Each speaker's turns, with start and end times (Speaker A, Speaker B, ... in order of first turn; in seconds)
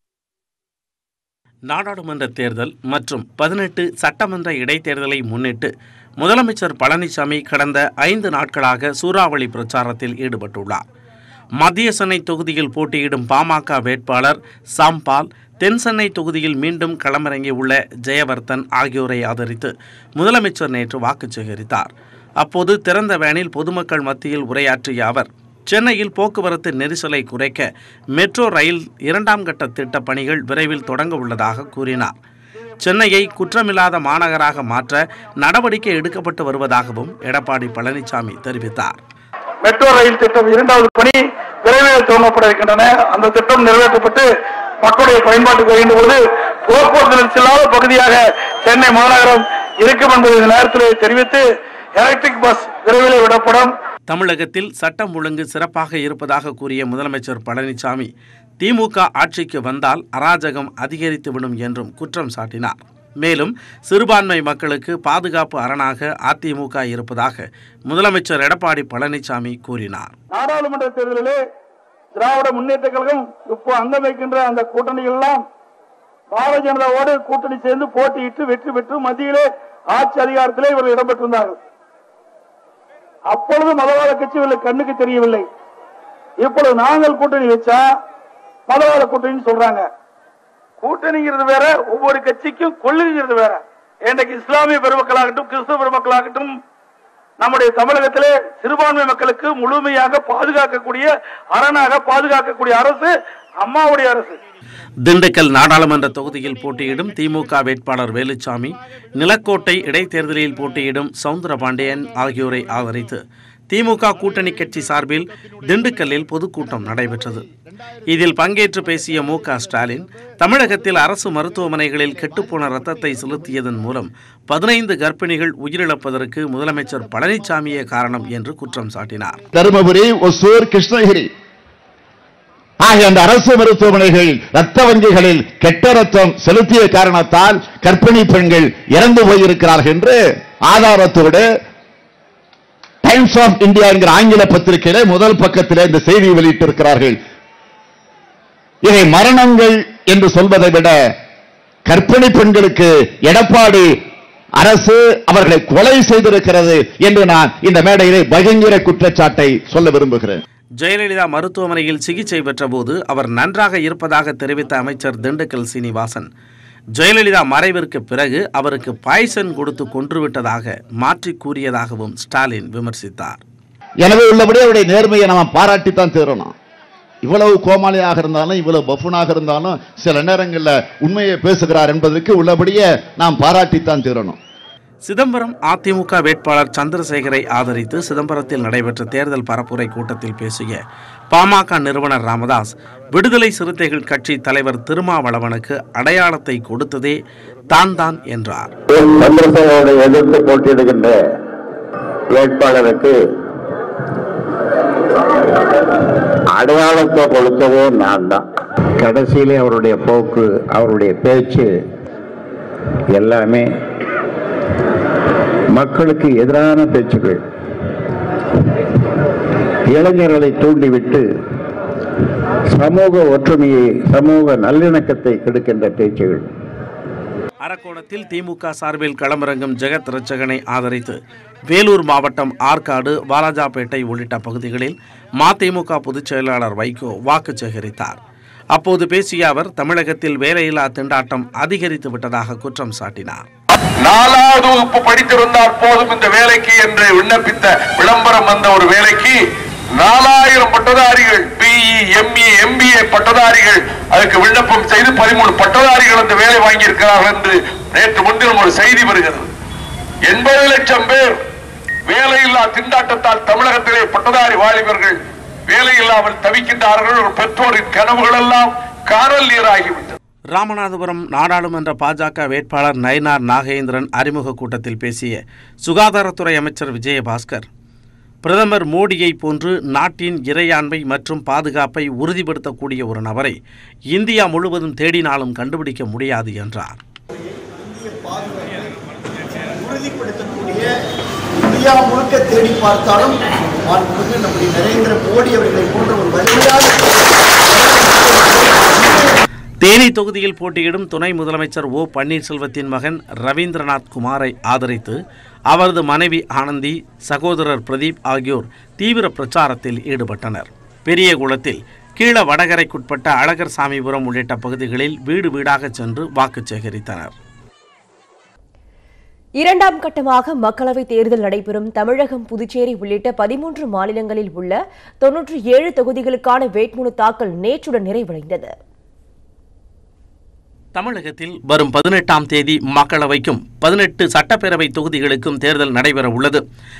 Speaker A: 1.7-10.8, 11.6-32.1, 32.8-39.0, 54.1-58.1, 58.6-70.1, 105.0-117.5, 118.1-129.4, 160.8-166.3, 166.9-173.4, 185.0-190.8, 191.3-197.2, 197.7-198.7, 227.6-238.2, 238.7-243.4, 270.5-277.7, 278.4-283.6, 284.1-287.0, 299.8-305.2, 305.7-317.3, 330.9-336.6
Speaker B: 39.6-53.8, 70.3-71.4, 72.1-75.5, 76.3-81.6, 83.3-85.5, 86.4-87.8, 88.7-89.9, 90.8-96.6, 97.4-104.4
Speaker C: 129.5-131.3, 132.8-141.4, 143.0-147.2, 148.8-151.0, 151.8-153.9, 154.6-160.4, 174.0-176.5, 177.2-184.4
Speaker D: 198.9-201.2, 202.3-203.2, 206.5-208.4, 209.0-211.8, 213.1-213.8, 215.7-217.4, 219.8-221.3, 222.7-226.4
Speaker E: 244.0-249.4, 250.0-259.5, 260.2-261.4, 262.1-270.1
Speaker F: 287.9-288.9, 289.8-290.8, 291.6-293.4, 293.9-299.1
Speaker G: 319.6-328.7